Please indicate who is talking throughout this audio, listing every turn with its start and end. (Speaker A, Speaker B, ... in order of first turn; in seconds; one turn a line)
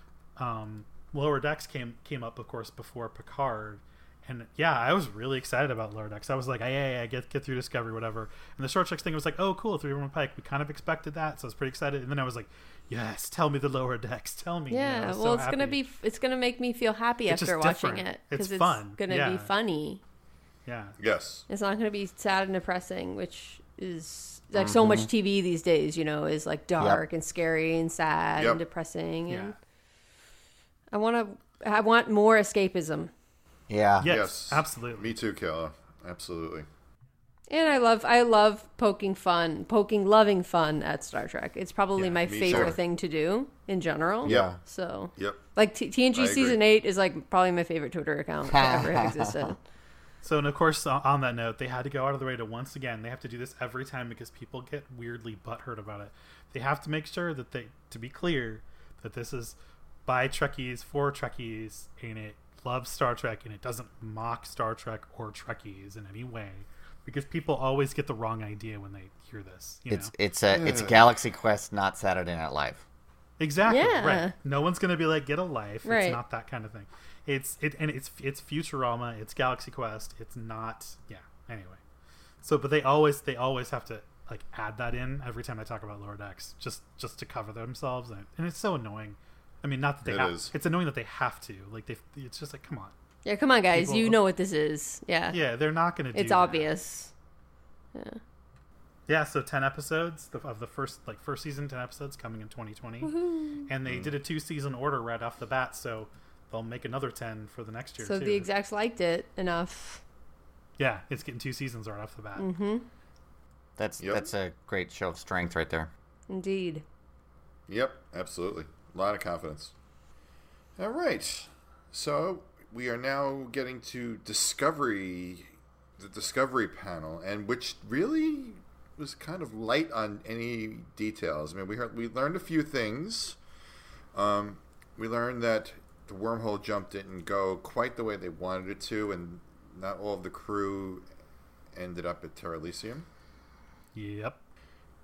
Speaker A: 0.4-15.8
Speaker B: 14.7-20.0
Speaker A: 17.3-19.5
Speaker A: 20.6-21.0
Speaker C: 21.0-21.4
Speaker B: 21.5-29.5
Speaker D: 24.6-25.1
Speaker A: 29.3-29.5
Speaker B: 30.9-33.1
Speaker D: 33.7-34.1
Speaker A: 34.0-35.1
Speaker C: 34.0-36.7
Speaker B: 37.5-49.6
Speaker A: 42.0-42.2
Speaker C: 42.2-42.8
Speaker D: 44.2-44.6
Speaker C: 44.2-44.5
Speaker C: 46.1-46.6
Speaker D: 48.5-49.5
Speaker A: 50.2-70.1
Speaker D: 69.9-72.8
Speaker C: 70.5-71.1
Speaker A: 73.4-81.8
Speaker B: 73.7-74.3
Speaker B: 75.8-76.2
Speaker A: 82.4-92.9
Speaker C: 90.0-90.5
Speaker B: 93.2-95.4
Speaker A: 93.7-94.2
Speaker A: 95.3-96.7
Speaker B: 96.1-97.1
Speaker B: 97.9-98.2
Speaker A: 99.1-103.1
Speaker B: 103.0-103.7
Speaker A: 103.7-108.5
Speaker C: 103.8-104.1
Speaker B: 108.0-110.0
Speaker A: 110.8-112.5
Speaker B: 112.4-112.8
Speaker D: 113.8-115.9
Speaker C: 114.0-114.3
Speaker B: 116.3-116.8
Speaker C: 117.7-119.7
Speaker C: 120.8-133.4
Speaker C: 134.1-141.0
Speaker C: 141.7-143.1
Speaker A: 143.9-144.4